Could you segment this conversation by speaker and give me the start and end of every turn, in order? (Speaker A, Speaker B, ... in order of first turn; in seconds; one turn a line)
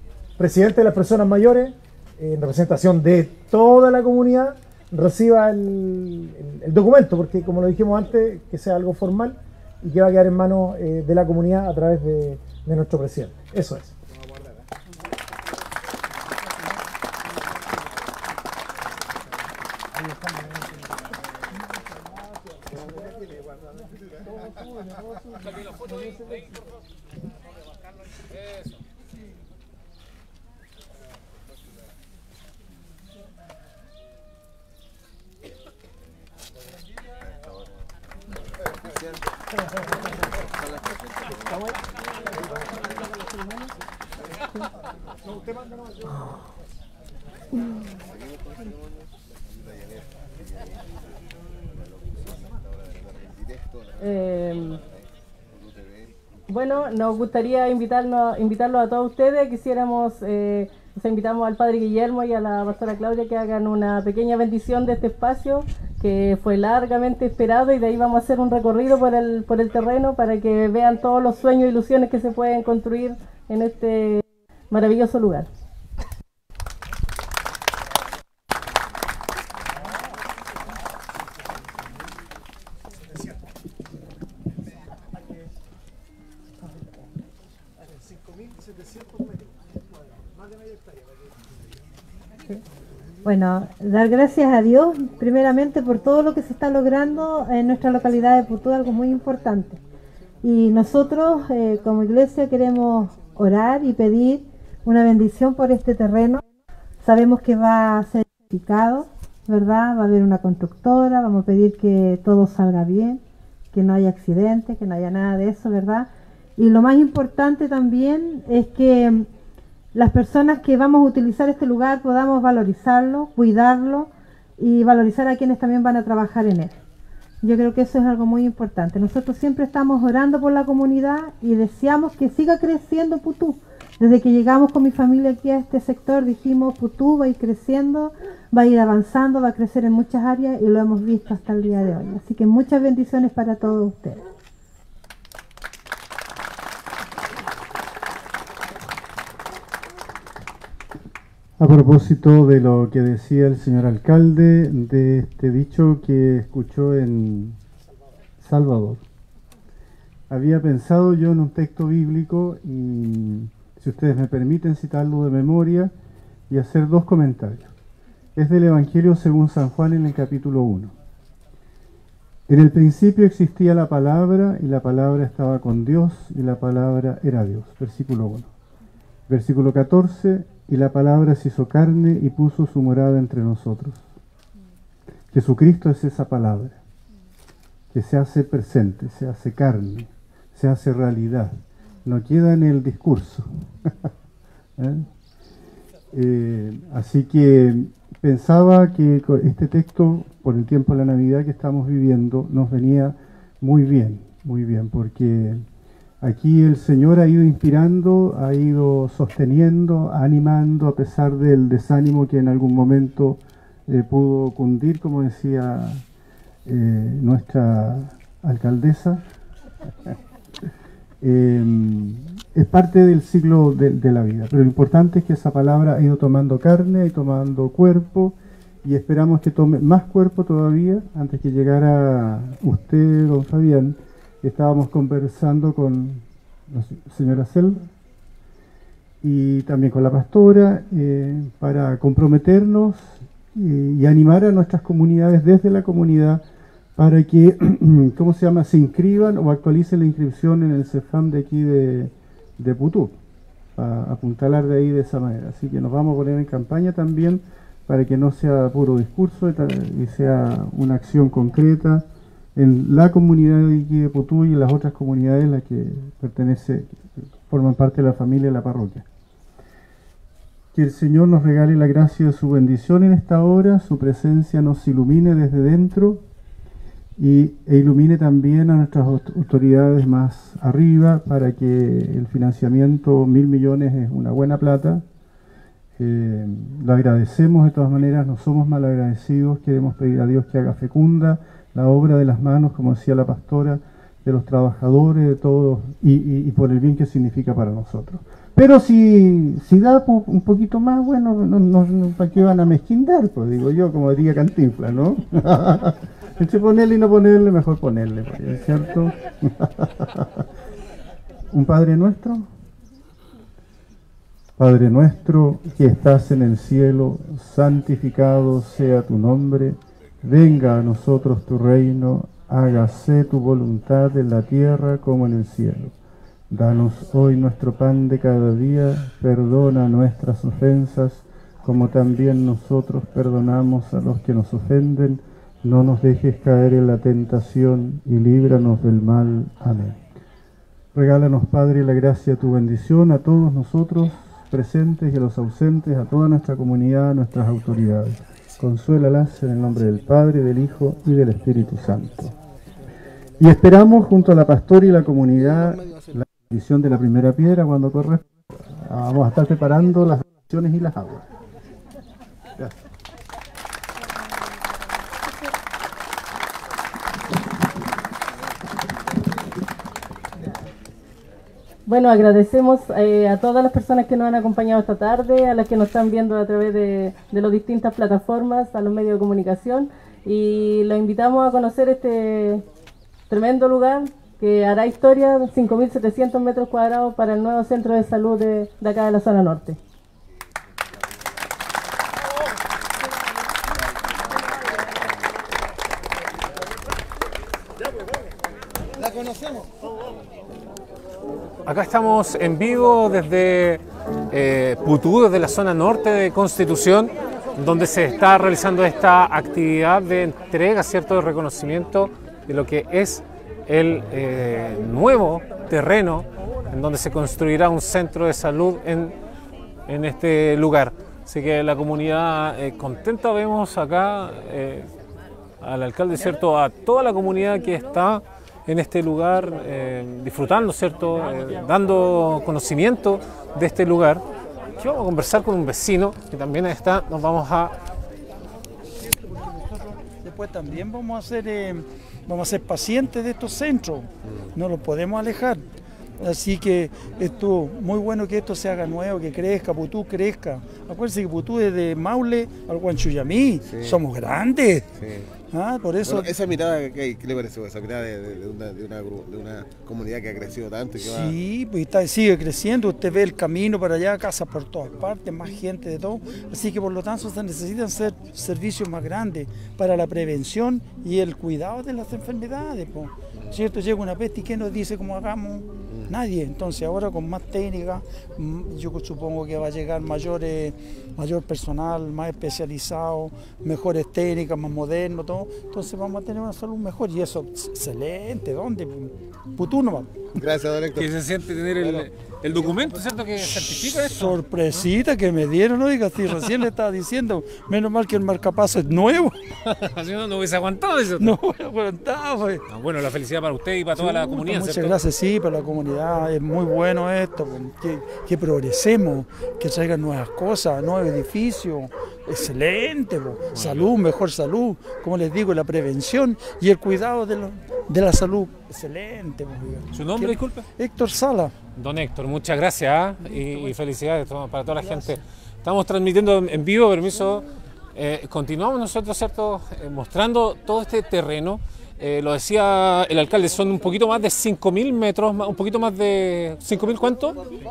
Speaker A: 0.4-14.0
Speaker B: 40.7-41.3
Speaker B: 48.4-48.7
Speaker B: 53.1-53.9
Speaker C: 54.0-54.8
Speaker C: 56.5-75.5
Speaker D: 93.2-99.8
Speaker D: 100.4-106.4
Speaker D: 107.0-113.2
Speaker D: 113.7-119.3
Speaker D: 119.9-126.8
Speaker D: 127.4-144.2
Speaker E: 151.6-157.6
Speaker E: 158.4-159.0
Speaker E: 160.3-165.9
Speaker E: 166.5-167.7
Speaker E: 168.4-170.9
Speaker E: 172.5-178.5
Speaker E: 179.3-184.1
Speaker E: 185.3-186.8
Speaker E: 187.9-194.1
Speaker E: 194.8-195.1
Speaker E: 196.1-205.7
Speaker E: 206.2-216.0
Speaker E: 216.7-219.2
Speaker E: 221.2-237.9
Speaker E: 239.2-246.4
Speaker E: 247.0-253.2
Speaker E: 253.8-262.0
Speaker E: 262.6-269.1
Speaker E: 270.7-276.2
Speaker E: 277.2-285.0
Speaker E: 286.0-310.4
Speaker E: 311.5-312.5
Speaker E: 314.6-325.9
Speaker E: 326.5-340.0
Speaker E: 340.9-352.4
Speaker E: 353.4-361.3
Speaker C: 371.9-382.6
Speaker C: 383.3-389.8
Speaker F: 401.6-419.1
Speaker F: 419.9-424.9
Speaker F: 425.6-434.2
Speaker F: 434.8-437.7
Speaker G: 439.3-445.6
Speaker G: 446.2-454.9
Speaker B: 453.7-454.0
Speaker B: 455.0-455.3
Speaker G: 455.5-456.3
Speaker B: 456.0-461.4
Speaker G: 461.0-490.2
Speaker B: 475.9-476.2
Speaker B: 490.4-491.1
Speaker F: 490.9-494.4
Speaker B: 491.8-492.1
Speaker G: 493.4-499.4
Speaker F: 499.6-501.4
Speaker G: 501.2-502.6
Speaker F: 502.7-505.0
Speaker G: 504.0-521.5
Speaker F: 513.5-513.9
Speaker F: 519.9-520.6
Speaker F: 521.8-537.4